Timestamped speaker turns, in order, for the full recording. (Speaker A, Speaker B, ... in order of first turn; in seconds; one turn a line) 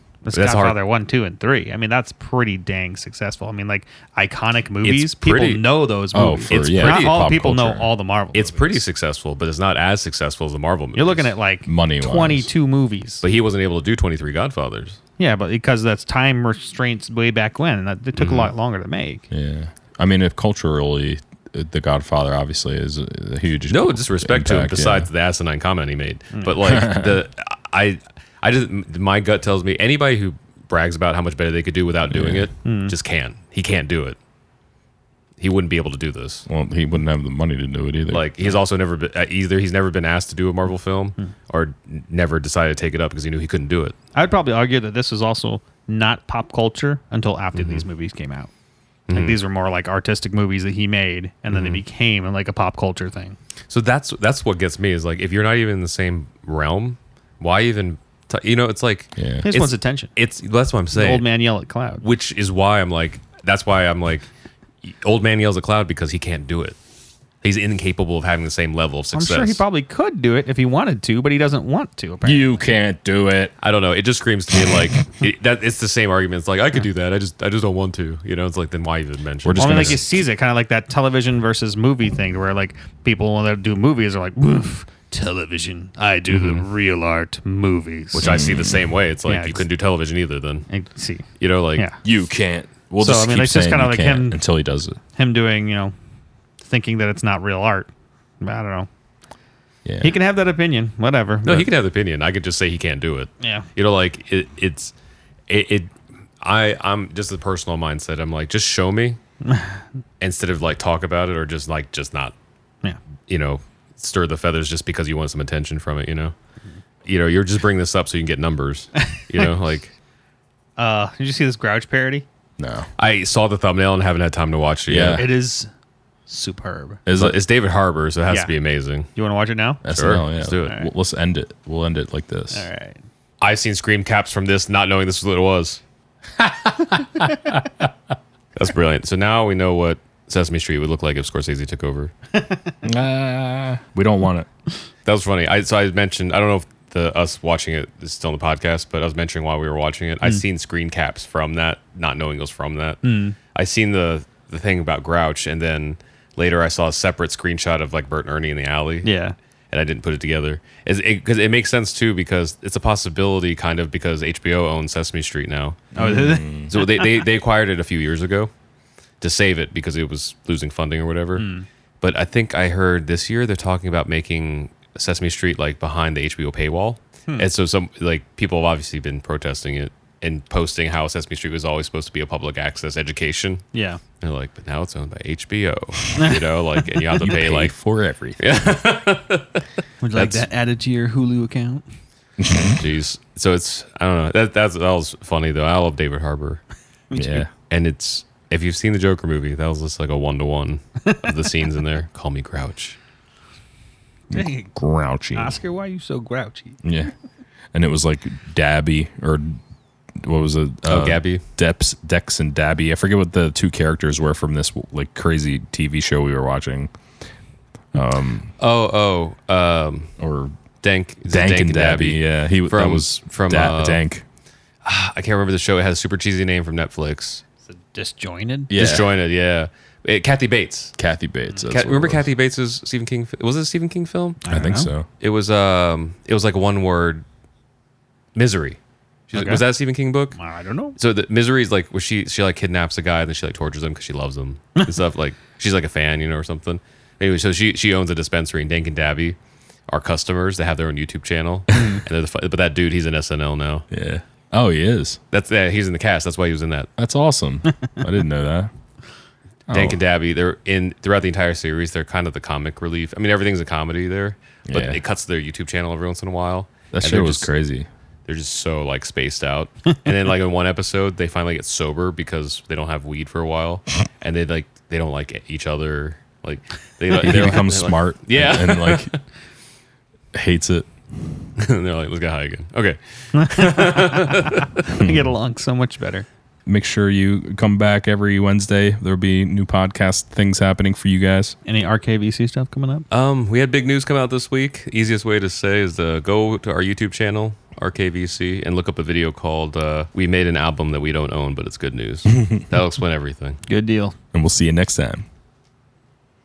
Speaker A: 0.2-8.8
Speaker B: 0.3-0.8
Speaker B: 4.8-5.6
Speaker C: 6.1-7.9
Speaker B: 6.5-7.3
Speaker B: 8.3-11.3
Speaker A: 10.9-13.2
Speaker C: 11.7-12.5
Speaker B: 13.2-15.0
Speaker A: 15.2-19.3
Speaker B: 18.2-18.5
Speaker C: 19.3-25.1
Speaker B: 23.7-34.2
Speaker A: 26.4-26.6
Speaker C: 26.6-27.2
Speaker C: 32.1-32.5
Speaker A: 32.6-32.9
Speaker B: 35.4-36.5
Speaker C: 36.5-38.3
Speaker B: 38.1-44.0
Speaker A: 44.1-48.5
Speaker B: 47.5-47.8
Speaker B: 49.1-49.4
Speaker A: 49.1-53.4
Speaker B: 51.5-51.8
Speaker B: 53.7-61.3
Speaker C: 59.2-59.5
Speaker A: 59.4-60.1
Speaker A: 60.9-62.0
Speaker B: 62.0-64.3
Speaker B: 64.8-66.8
Speaker B: 67.4-69.6
Speaker A: 69.1-72.6
Speaker C: 72.2-73.5
Speaker B: 73.6-80.0
Speaker C: 79.4-80.0
Speaker A: 79.6-88.4
Speaker B: 86.3-86.7
Speaker B: 88.1-90.7
Speaker C: 88.2-88.9
Speaker A: 89.3-89.6
Speaker A: 90.7-92.0
Speaker B: 91.4-91.9
Speaker C: 92.0-95.0
Speaker A: 93.0-94.4
Speaker A: 95.2-95.9
Speaker A: 96.6-97.9
Speaker A: 98.4-98.9
Speaker C: 99.8-100.2
Speaker A: 100.0-101.7
Speaker B: 101.5-104.9
Speaker A: 103.4-103.7
Speaker B: 105.5-109.2
Speaker A: 109.4-109.8
Speaker B: 110.2-112.3
Speaker B: 113.3-116.3
Speaker B: 117.1-119.9
Speaker A: 120.8-122.3
Speaker C: 122.6-122.9
Speaker B: 123.0-125.2
Speaker C: 124.9-125.3
Speaker A: 125.1-125.7
Speaker A: 126.3-127.0
Speaker C: 127.1-127.4
Speaker B: 127.1-129.1
Speaker A: 129.1-129.8
Speaker C: 129.8-132.7
Speaker B: 129.9-130.8
Speaker A: 132.5-133.0
Speaker B: 133.4-135.8
Speaker C: 136.4-137.6
Speaker B: 138.6-142.1
Speaker A: 142.3-142.7
Speaker C: 142.8-144.5
Speaker B: 145.1-159.1
Speaker A: 153.0-153.4
Speaker A: 159.0-159.3
Speaker B: 159.7-165.9
Speaker A: 165.9-166.8
Speaker C: 166.0-166.7
Speaker B: 166.7-168.5
Speaker B: 169.2-171.5
Speaker A: 171.4-171.7
Speaker B: 172.0-183.6
Speaker A: 183.7-184.0
Speaker B: 184.2-187.7
Speaker C: 187.2-188.4
Speaker B: 188.4-189.6
Speaker A: 190.0-191.8
Speaker B: 190.2-190.5
Speaker C: 192.4-192.8
Speaker B: 192.6-196.6
Speaker A: 197.1-197.4
Speaker C: 197.1-197.5
Speaker B: 197.5-203.0
Speaker A: 204.3-204.7
Speaker C: 204.3-205.6
Speaker A: 205.3-206.8
Speaker C: 206.8-207.1
Speaker C: 207.7-209.6
Speaker C: 210.2-216.9
Speaker B: 210.9-211.4
Speaker C: 217.9-218.5
Speaker B: 218.6-220.1
Speaker C: 220.2-220.5
Speaker B: 220.8-224.0
Speaker C: 221.3-224.2
Speaker B: 224.8-227.4
Speaker A: 227.6-228.7
Speaker C: 228.7-229.1
Speaker B: 228.8-230.9
Speaker C: 231.0-232.3
Speaker B: 231.7-234.4
Speaker A: 234.4-234.9
Speaker C: 234.5-235.1
Speaker B: 235.2-237.2
Speaker B: 238.3-240.4
Speaker A: 239.3-239.6
Speaker A: 240.3-241.0
Speaker B: 241.0-249.4
Speaker B: 249.9-253.9
Speaker A: 251.7-252.0
Speaker C: 253.9-255.2
Speaker B: 255.3-256.9
Speaker C: 257.0-258.7
Speaker C: 259.7-260.0
Speaker B: 259.7-267.5
Speaker C: 264.7-265.0
Speaker C: 266.9-267.9
Speaker B: 268.3-279.2
Speaker C: 277.2-279.1
Speaker C: 280.3-280.9
Speaker B: 281.6-284.8
Speaker A: 283.3-286.3
Speaker C: 284.9-285.3
Speaker C: 286.7-291.6
Speaker A: 291.7-293.1
Speaker B: 293.1-303.6
Speaker A: 303.7-304.1
Speaker C: 304.3-305.2